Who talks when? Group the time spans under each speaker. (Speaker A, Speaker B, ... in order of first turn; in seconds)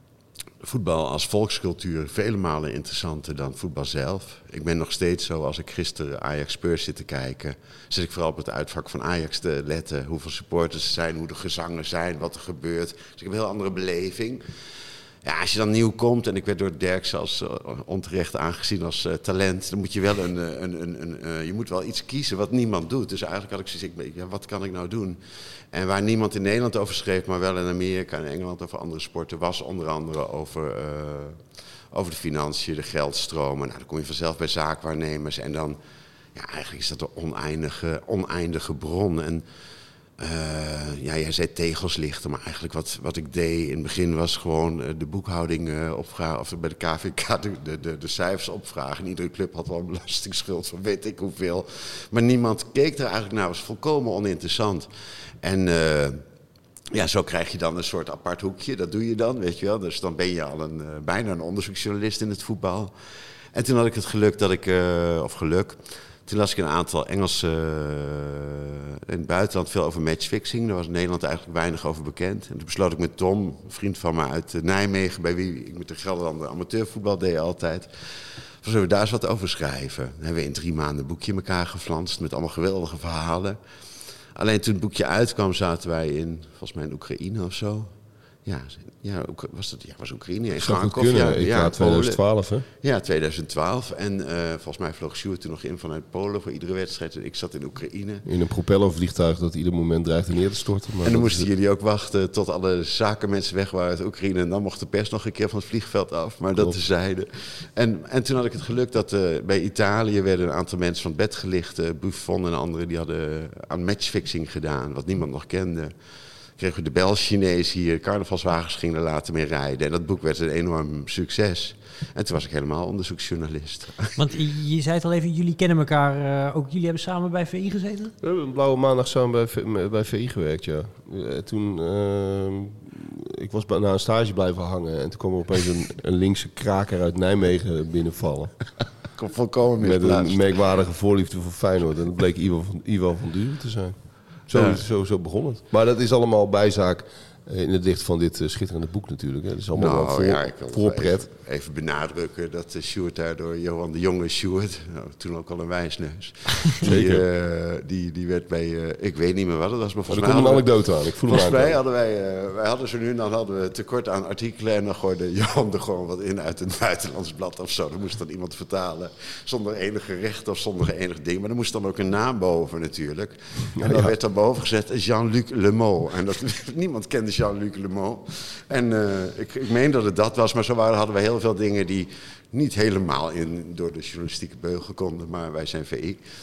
Speaker A: 0.6-14.4, 15.2-25.2, 25.7-31.4, 31.9-35.8, 36.3-39.4, 40.2-54.9, 55.4-56.2, 56.9-62.9, 63.5-83.6, 84.3-87.9, 88.5-92.2, 92.8-98.2, 101.0-115.9, 116.6-124.2, 139.2-140.4, 144.5-144.8, 149.8-186.2
Speaker B: 90.6-92.7, 98.2-101.5, 128.2-138.9, 139.8-151.3, 156.8-157.2, 160.1-161.8, 173.8-174.1
Speaker C: 124.2-128.1